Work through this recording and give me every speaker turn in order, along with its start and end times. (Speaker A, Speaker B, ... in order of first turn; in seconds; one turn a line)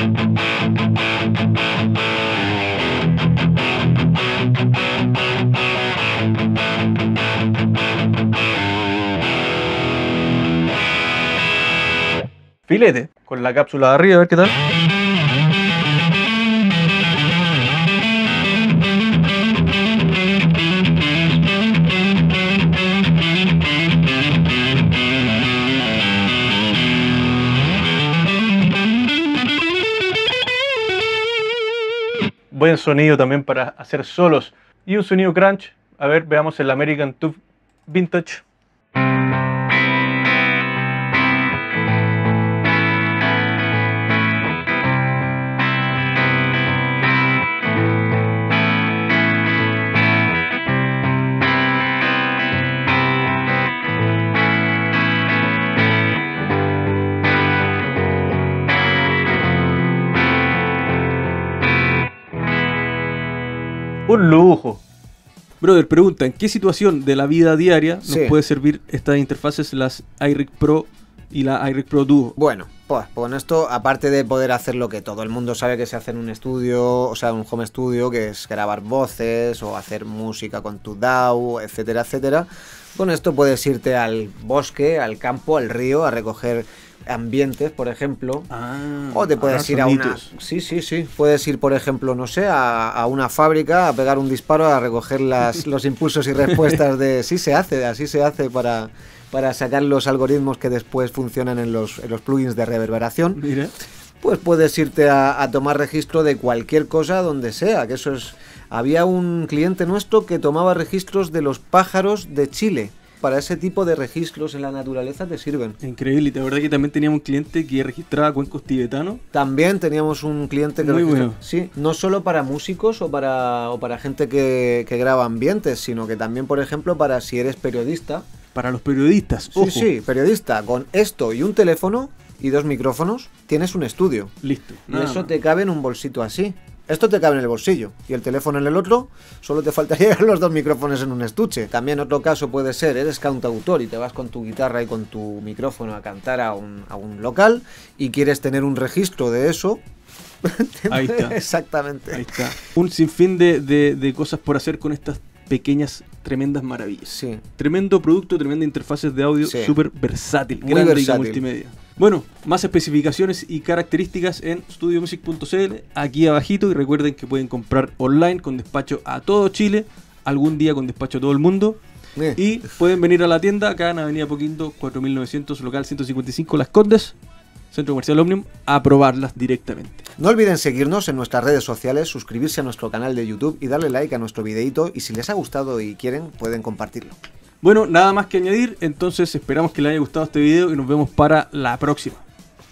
Speaker A: 12.7-14.6
Speaker A: 32.5-38.4
Speaker A: 64.1-64.8
Speaker A: 65.6-72.4
Speaker B: 68.0-68.3
Speaker B: 72.4-88.5
Speaker A: 88.5-90.3
Speaker B: 89.1-103.4
Speaker A: 103.3-103.7
Speaker B: 104.2-115.8
Speaker A: 115.8-119.2
Speaker B: 119.3-128.3
Speaker A: 120.8-121.4
Speaker A: 128.5-129.9
Speaker B: 129.5-134.3
Speaker A: 134.4-135.3
Speaker B: 134.9-149.8
Speaker B: 150.4-152.4
Speaker A: 150.9-151.4
Speaker A: 152.1-171.8
Speaker B: 157.1-157.4
Speaker B: 159.4-159.8
Speaker B: 160.6-161.4
Speaker A: 172.3-177.2
Speaker A: 177.7-180.0
Speaker B: 180.2-187.2
Speaker A: 187.6-192.2